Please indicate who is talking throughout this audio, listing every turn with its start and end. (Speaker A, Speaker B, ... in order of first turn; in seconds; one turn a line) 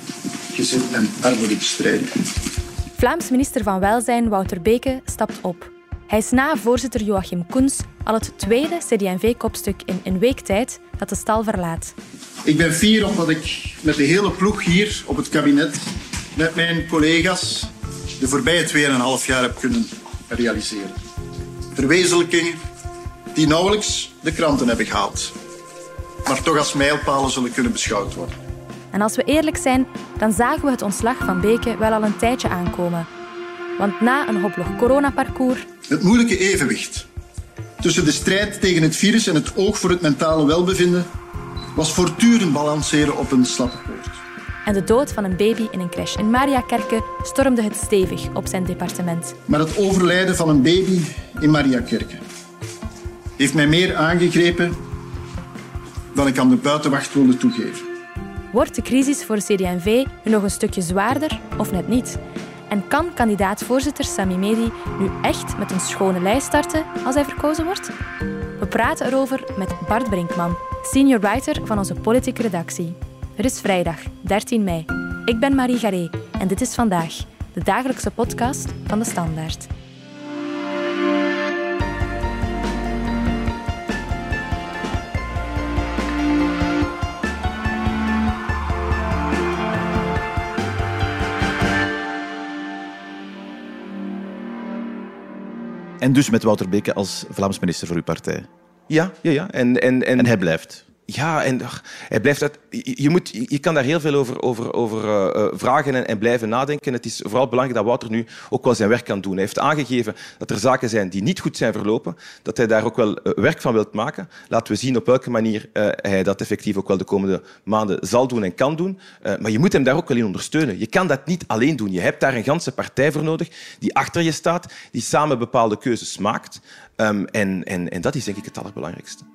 Speaker A: 0.5-2.2
Speaker B: 3.0-11.9
Speaker A: 12.4-21.0
Speaker A: 21.8-22.6
Speaker A: 23.3-25.3
Speaker A: 26.2-28.3
Speaker B: 28.9-33.1
Speaker B: 33.8-35.6
Speaker A: 35.9-37.1
Speaker A: 37.8-41.1
Speaker A: 41.8-44.2
Speaker B: 44.6-49.3
Speaker A: 49.5-52.2
Speaker A: 53.4-54.8
Speaker A: 56.1-57.9
Speaker B: 58.5-67.9
Speaker B: 68.6-79.7
Speaker C: 96.0-98.5
Speaker D: 98.9-100.3
Speaker C: 100.2-100.8
Speaker D: 101.1-129.2